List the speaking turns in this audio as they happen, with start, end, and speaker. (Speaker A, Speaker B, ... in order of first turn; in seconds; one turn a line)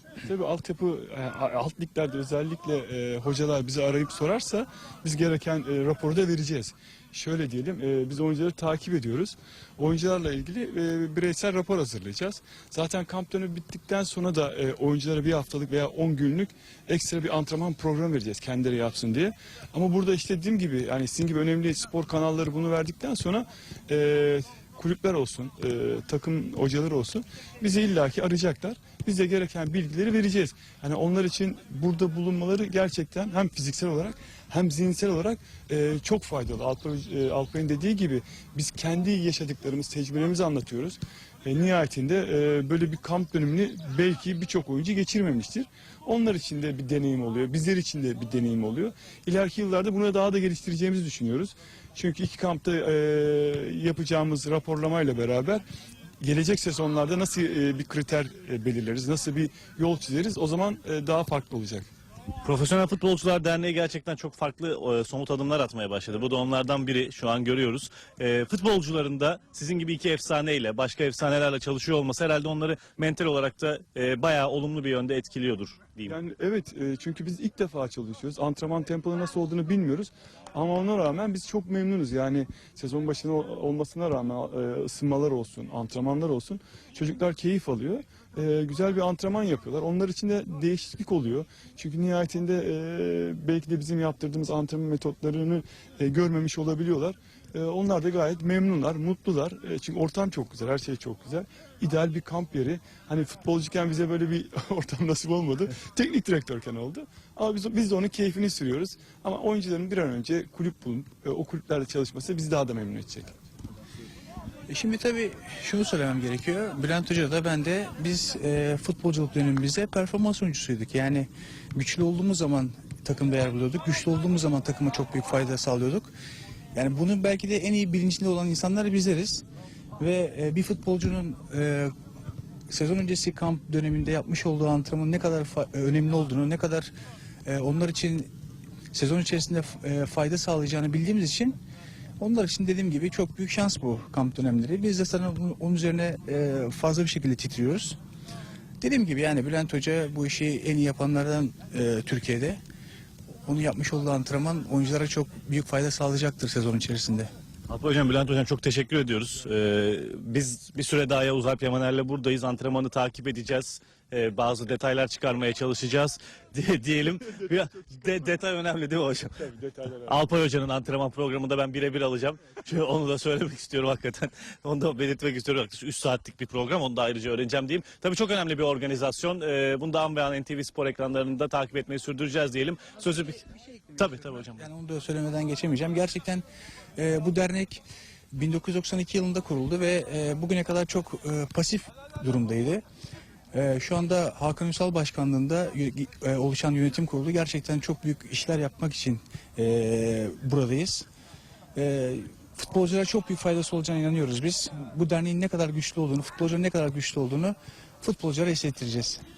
Speaker A: 0.2-55.6
Speaker A: 56.2-61.9
Speaker B: 62.4-76.2
Speaker A: 76.1-113.3
Speaker C: 114.7-126.1
Speaker C: 126.8-129.4
Speaker C: 130.0-131.9
Speaker C: 132.7-136.9
Speaker C: 137.4-138.3
Speaker C: 138.9-141.6
Speaker C: 142.2-148.0
Speaker C: 148.8-152.6
Speaker C: 153.4-157.3
Speaker B: 157.7-169.4
Speaker A: 169.4-170.1
Speaker B: 170.0-184.6
Speaker C: 184.0-186.4
Speaker C: 187.0-192.8
Speaker C: 193.5-201.1
Speaker C: 201.8-209.2